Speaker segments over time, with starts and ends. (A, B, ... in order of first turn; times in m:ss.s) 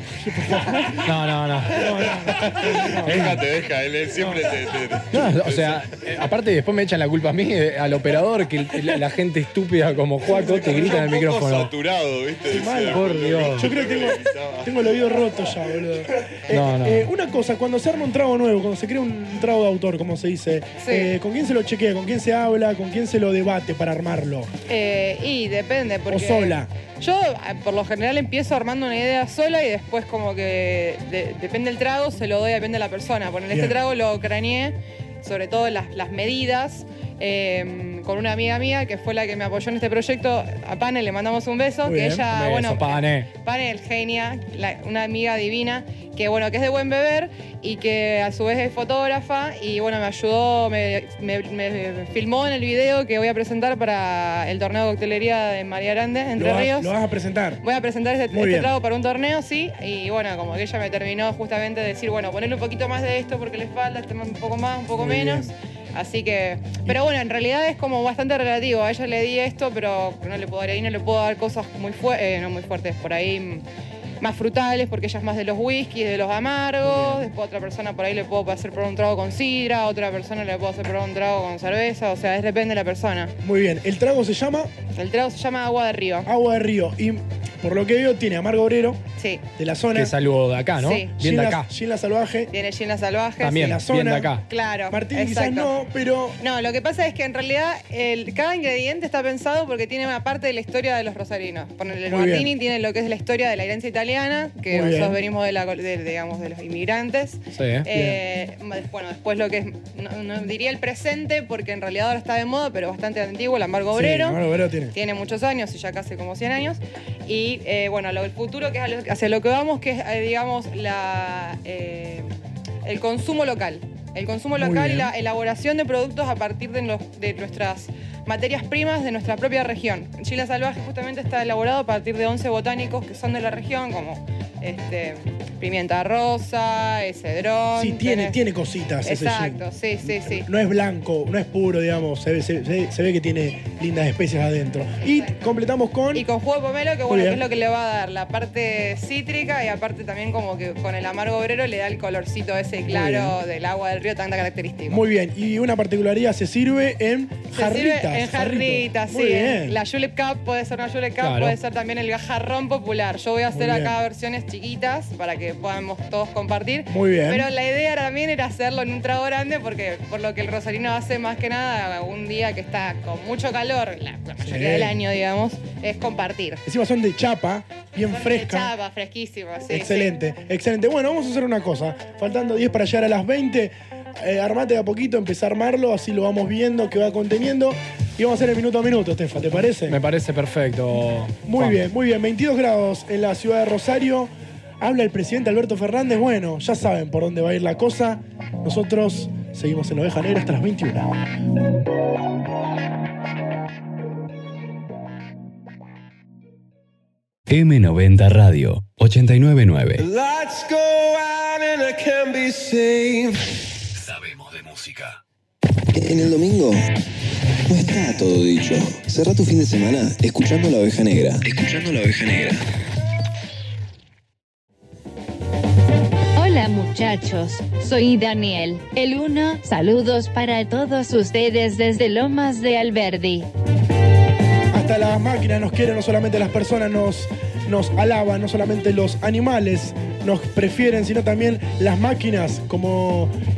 0:00.2-0:00.9 A
0:01.0-0:02.5 B
0:01.8-0:03.4 A
0:02.3-0:05.8 C
0:05.1-0:11.7 B
0:10.2-0:11.0 A
0:10.6-0:15.0 C
0:12.4-0:24.5 A
0:12.9-0:13.7 B
0:16.5-0:17.1 B
0:20.8-0:21.1 D
0:24.7-0:56.9 D
0:26.1-0:26.7 A
0:33.5-0:33.8 A
0:41.8-0:42.2 A
0:42.3-0:43.3 B
0:56.4-0:57.6 A
0:57.6-1:13.6 D
0:58.3-0:58.7 A
1:04.9-1:05.5 A
1:14.2-1:23.3 D
1:16.8-1:17.3 A
1:23.4-1:24.7 A
1:24.9-1:26.3 D
1:26.2-1:29.0 A
1:29.2-1:29.4 D
1:29.6-1:30.1 A
1:29.9-1:31.7 B
1:30.8-1:31.1 D
1:31.2-1:32.5 A
1:32.5-1:33.7 D
1:33.4-1:34.4 B
1:33.5-1:34.4 A
1:34.5-1:35.7 D
1:34.9-1:36.4 A
1:36.4-1:54.4 D
1:42.1-1:42.5 A
1:44.7-1:45.2 A
1:47.5-1:47.9 B
1:47.9-1:48.2 A
1:53.9-1:55.0 A
1:54.9-2:02.3 D
2:02.8-2:18.4 D
2:04.6-2:05.1 A
2:17.7-2:26.2 A
2:19.0-2:20.5 D
2:25.0-2:25.6 D
2:26.1-2:35.0 D
2:27.1-2:27.4 A
2:32.9-2:33.4 A
2:34.9-2:39.8 A
2:37.5-2:56.6 D
2:41.2-2:41.6 B
2:43.5-2:44.0 A
2:46.9-2:47.5 A
2:54.4-2:55.0 A
2:56.6-2:58.7 A
2:58.0-3:00.2 D
2:59.7-3:10.0 A
3:09.8-3:11.8 B
3:11.4-3:21.1 A
3:27.5-3:30.0 E
3:30.0-3:33.4 F
3:33.9-3:35.2 E
3:37.7-3:42.5 G
3:46.4-3:53.5 H
3:54.7-4:03.3 A